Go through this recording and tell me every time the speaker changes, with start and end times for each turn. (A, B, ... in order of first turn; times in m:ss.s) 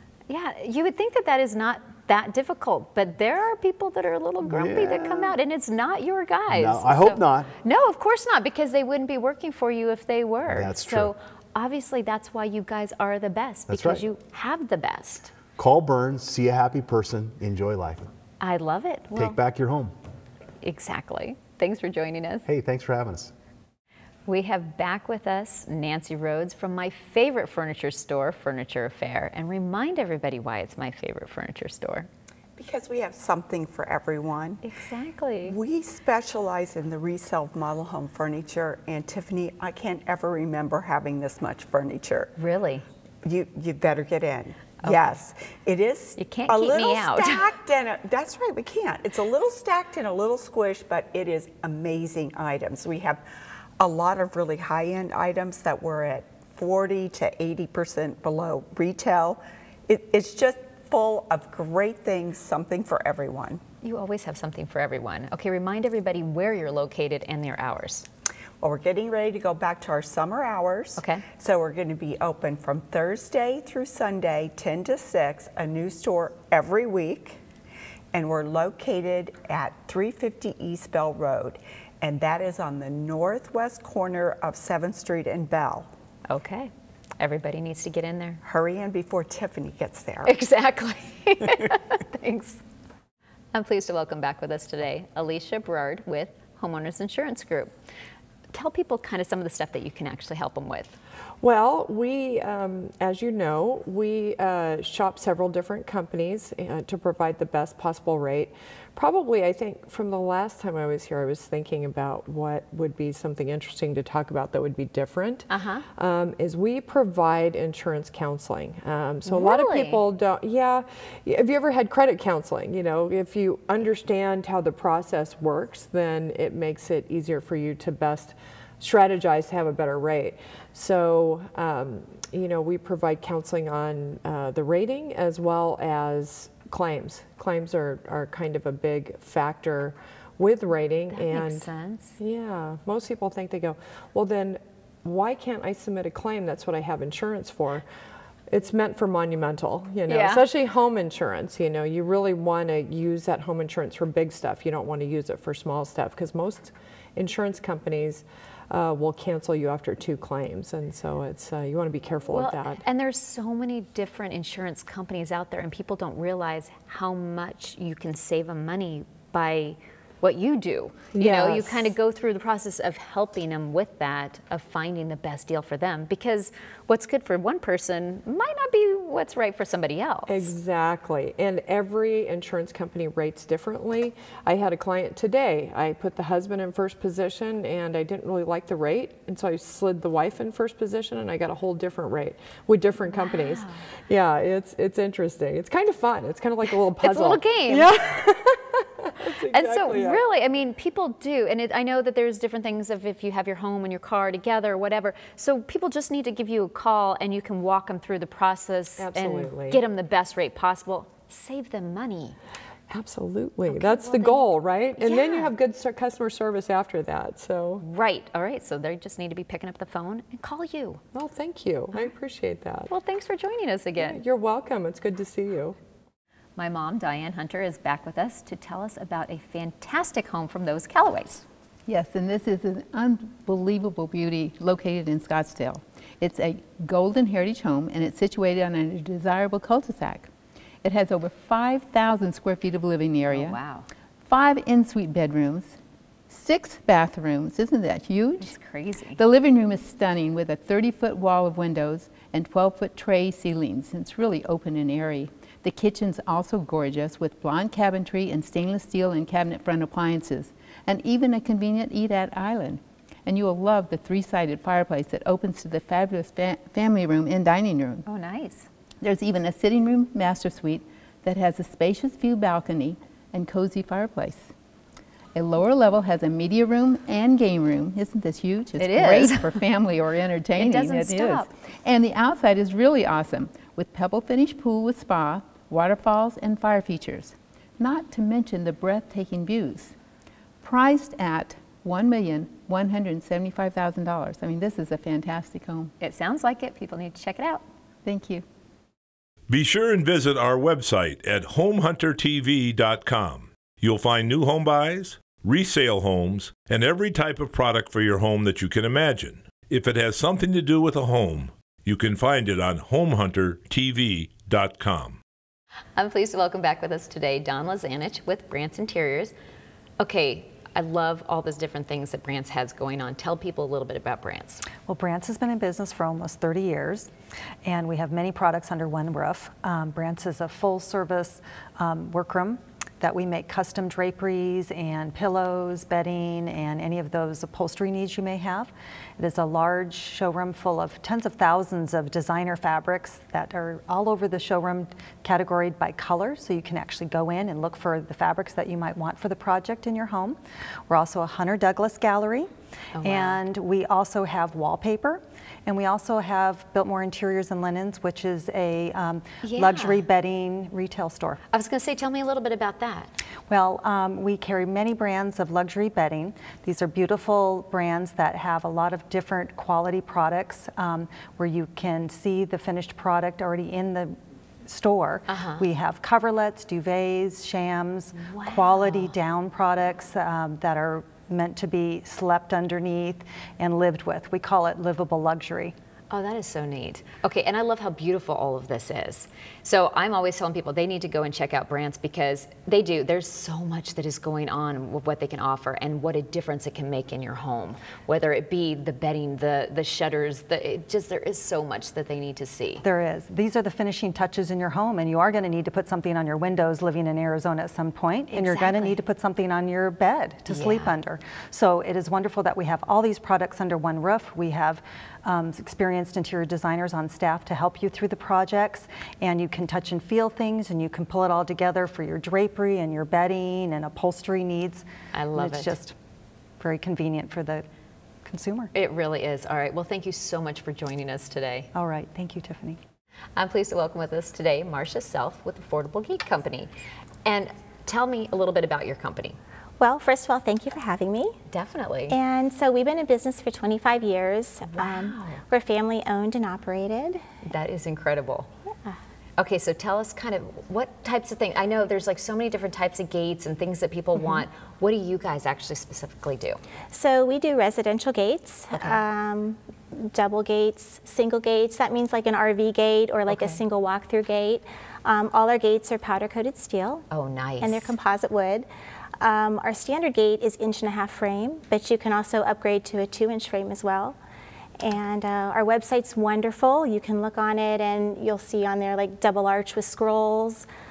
0:00.3-0:15.3 A
0:04.4-0:05.3 B
0:06.5-0:07.5 B
0:10.5-0:11.1 B
0:13.7-0:14.0 B
0:15.6-0:18.1 B
0:18.4-0:19.4 A
0:19.1-0:19.9 B
0:20.6-0:22.5 A
0:22.4-0:23.3 B
0:24.3-0:32.1 A
0:32.6-0:34.6 C
0:34.6-0:35.6 A
0:35.4-0:42.3 C
0:42.4-0:42.8 A
0:43.2-0:53.2 C
0:46.2-0:47.4 A
0:53.8-1:03.6 C
1:03.8-1:08.1 A
1:08.6-1:17.4 C
1:11.0-1:11.2 A
1:18.1-1:25.9 C
1:26.3-1:28.4 A
1:28.4-1:30.4 C
1:30.2-1:32.6 A
1:33.5-1:37.7 A
1:38.5-1:41.0 A
1:41.4-2:27.9 D
1:55.5-1:55.8 A
1:59.2-2:00.0 A
2:21.1-2:22.2 A
2:28.5-2:42.8 D
2:30.1-2:30.5 A
2:42.3-3:00.5 A
2:51.1-2:51.9 D
3:00.3-3:20.2 D
3:13.1-3:13.8 A
3:17.0-3:18.0 A
3:19.5-3:32.4 A
3:29.0-3:29.8 D
3:32.9-3:37.8 D
3:33.7-3:35.5 A
3:37.8-3:41.0 A
3:41.1-3:42.9 D
3:42.9-3:44.2 A
3:44.0-3:45.8 D
3:46.6-3:51.4 A
3:51.9-4:00.3 E
4:00.8-4:03.6 E
4:03.3-4:03.9 A
4:04.2-4:05.8 E
4:06.3-4:08.5 E
4:08.4-4:09.2 A
4:09.2-4:28.0 E
4:28.1-4:28.7 A
4:29.0-4:34.5 E
4:35.4-4:49.9 E
4:38.8-4:39.6 A
4:40.6-4:41.5 A
4:50.6-4:55.9 E
4:56.0-4:57.6 A
4:58.0-4:58.4 E
4:59.5-5:15.2 F
5:16.0-5:19.3 A
5:20.0-5:24.6 A
5:24.8-5:27.1 G
5:27.6-6:01.4 G
5:52.9-5:53.4 A
5:59.4-6:00.0 A
6:01.5-6:03.1 A
6:03.5-6:25.7 G
6:15.3-6:15.7 A
6:18.2-6:19.2 A
6:26.1-6:42.8 A
6:42.8-7:06.0 G
6:48.3-6:49.0 A
6:50.5-6:51.0 A
7:05.1-7:05.8 A
7:06.6-7:07.6 G
7:08.3-7:08.7 G
7:08.7-7:11.7 A
7:11.7-7:12.8 G
7:13.4-7:16.7 A
7:17.2-7:19.4 A
7:19.8-7:21.4 H
7:21.5-7:22.2 A
7:22.1-7:27.2 H
7:24.7-7:25.4 A
7:27.4-7:28.5 A
7:29.4-7:36.6 A
7:36.9-7:47.0 H
7:38.7-7:39.0 A
7:43.3-7:43.6 A
7:47.1-7:47.9 A
7:47.6-7:48.7 H
7:49.2-7:54.2 H
7:54.8-8:00.7 H